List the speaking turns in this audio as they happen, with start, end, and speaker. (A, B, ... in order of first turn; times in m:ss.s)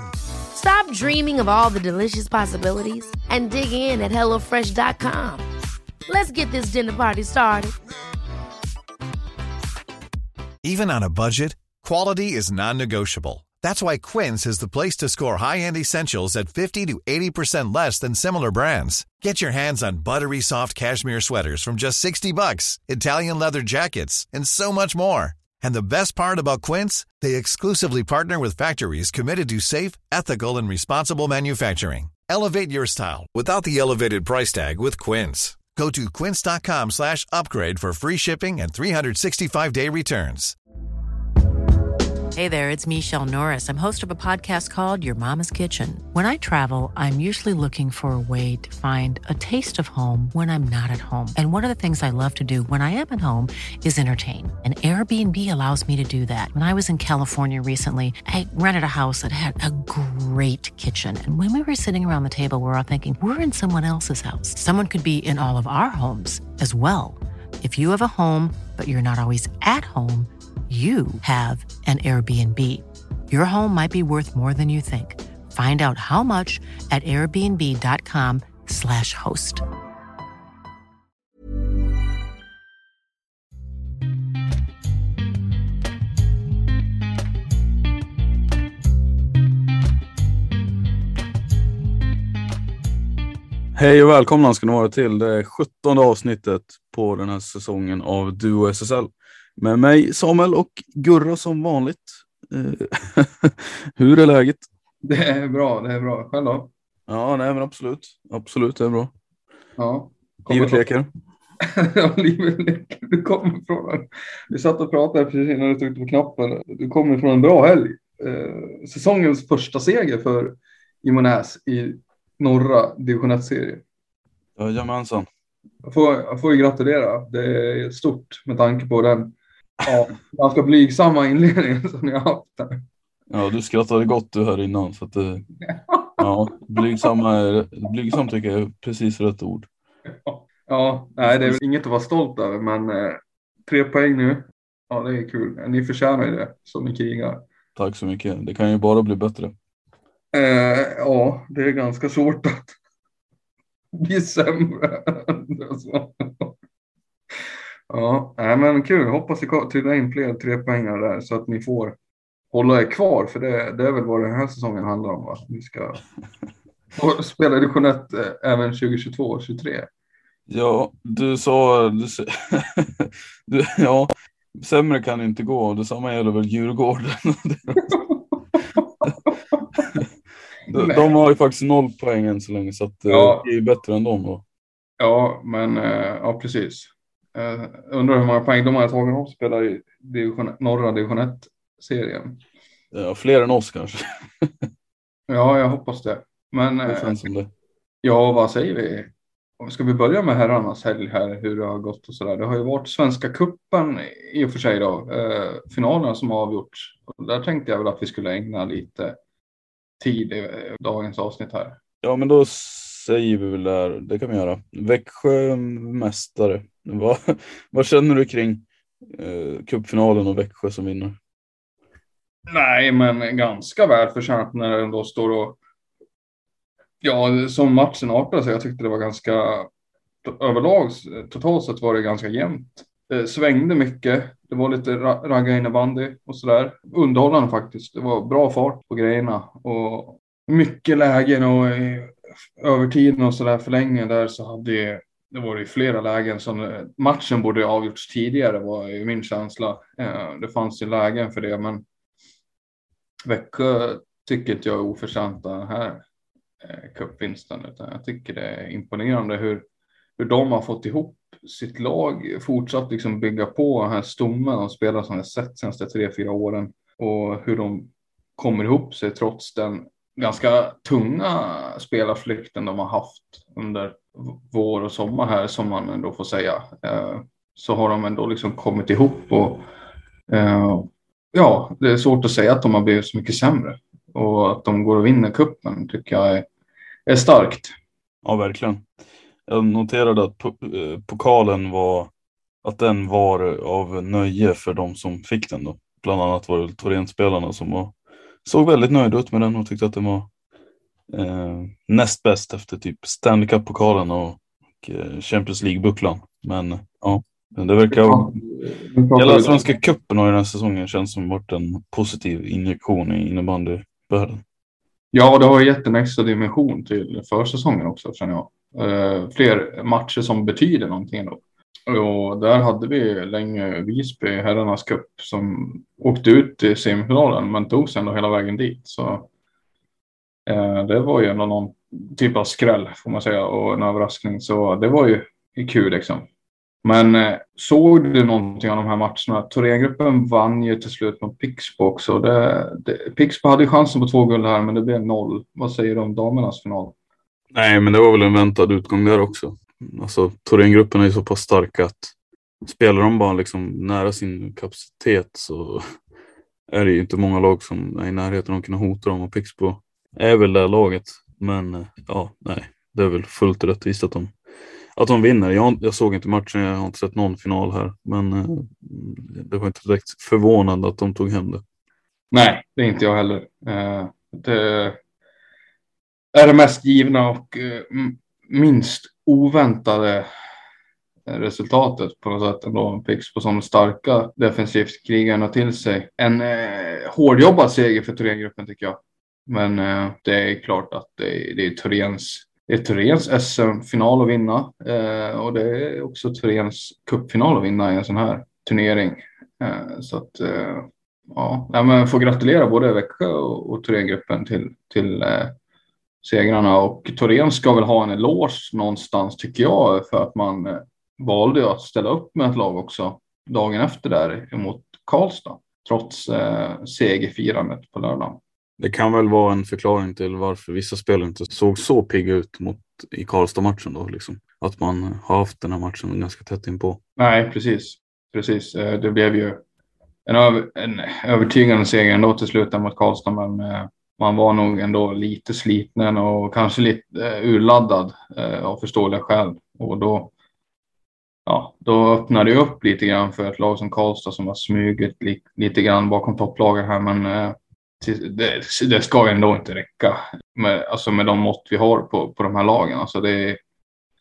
0:00.5-0:05.4 A
0:06.1-0:07.7 A
0:10.6-0:40.5 B
0:42.4-1:19.6 C
1:33.7-1:44.6 D
1:45.0-1:46.7 E
1:47.1-1:49.1 D
1:49.8-1:50.8 E
1:50.5-1:51.1 D
1:51.6-2:03.8 E
2:04.6-2:05.3 D
2:05.8-2:12.8 E
2:13.3-2:15.4 D
2:15.9-2:16.2 E
2:16.2-2:19.7 D
2:20.2-2:27.4 E
2:21.2-2:21.6 D
2:27.8-2:29.5 D
2:30.3-2:32.8 E
2:34.0-2:36.5 E
2:37.9-2:42.0 E
2:42.5-2:46.0 E
2:46.9-2:49.9 E
2:50.5-2:58.0 D
3:00.7-3:04.4 D
3:00.7-3:01.1 E
3:03.1-3:03.4 E
3:05.0-3:12.4 E
3:12.9-3:14.5 D
3:15.3-3:17.3 E
3:16.8-3:17.5 D
3:18.0-3:29.1 E
3:30.0-3:31.8 E
3:32.0-3:41.2 D
3:42.5-3:45.6 E
3:47.0-3:49.7 E
3:50.2-4:11.8 E
4:13.2-4:16.0 E
4:16.6-4:19.6 E
4:20.2-4:39.6 E
4:40.3-4:46.4 E
4:47.1-4:47.7 E
4:48.2-4:48.8 D
4:49.5-4:52.1 D
4:52.6-4:57.9 D
4:58.4-5:00.3 D
5:01.1-5:08.4 D
5:07.9-5:09.6 E
5:09.1-5:14.4 D
5:15.1-5:29.3 E
5:30.5-5:36.3 E
5:36.8-5:46.9 E
5:47.5-5:52.1 D
5:52.6-5:55.8 D
5:56.7-6:04.3 D
6:05.0-6:11.6 D
6:12.3-6:15.0 E
6:16.3-6:20.3 E
6:21.3-6:45.5 E
6:46.2-6:58.4 E
6:58.8-7:07.0 D
7:07.2-7:09.6 E
7:10.2-7:20.3 E
7:21.4-7:33.6 E